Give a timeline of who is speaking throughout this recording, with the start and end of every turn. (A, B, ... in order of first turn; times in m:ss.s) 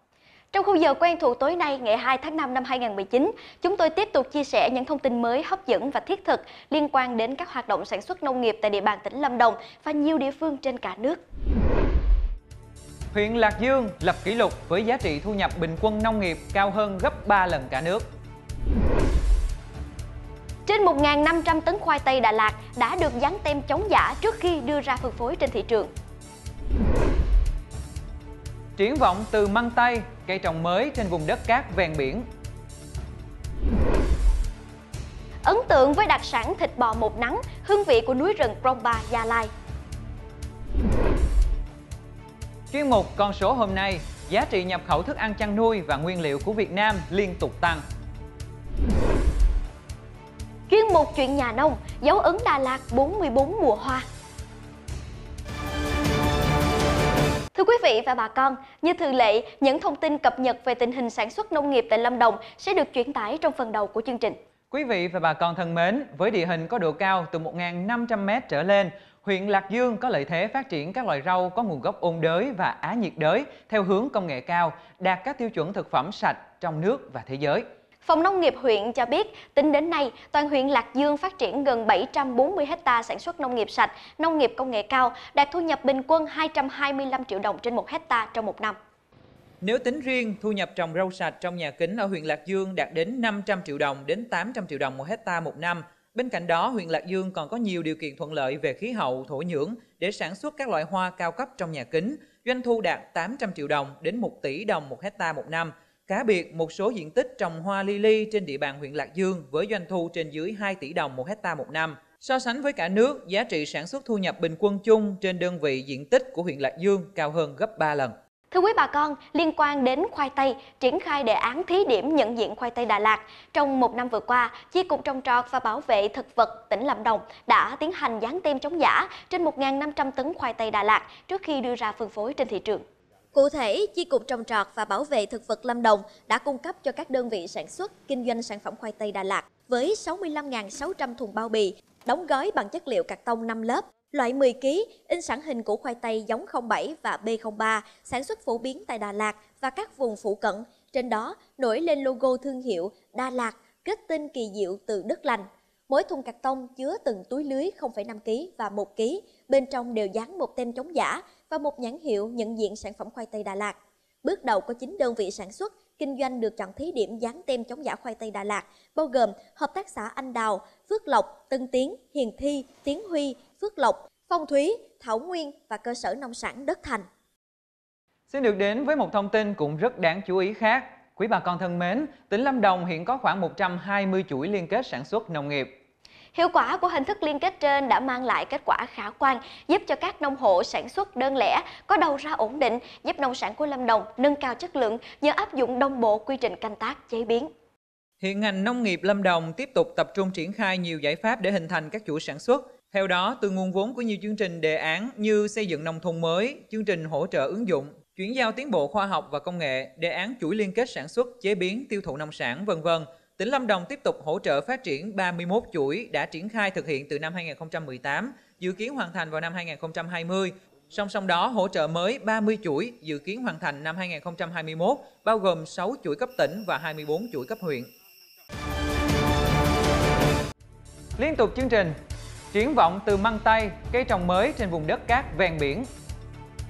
0:00.5-0:11.2 A
0:13.1-0:18.1 B
0:20.7-0:25.9 A
0:28.8-0:32.2 B
0:35.4-0:39.5 A
0:42.7-0:47.8 B
0:50.7-0:54.0 A
0:57.5-1:04.4 A
1:04.7-1:17.6 B
1:18.0-1:28.8 A
1:29.6-1:58.1 B
1:58.5-2:57.1 A
2:58.3-3:05.7 B
3:06.3-3:17.5 A
3:18.2-3:47.9 B
3:51.2-3:51.9 B
3:52.5-3:55.9 B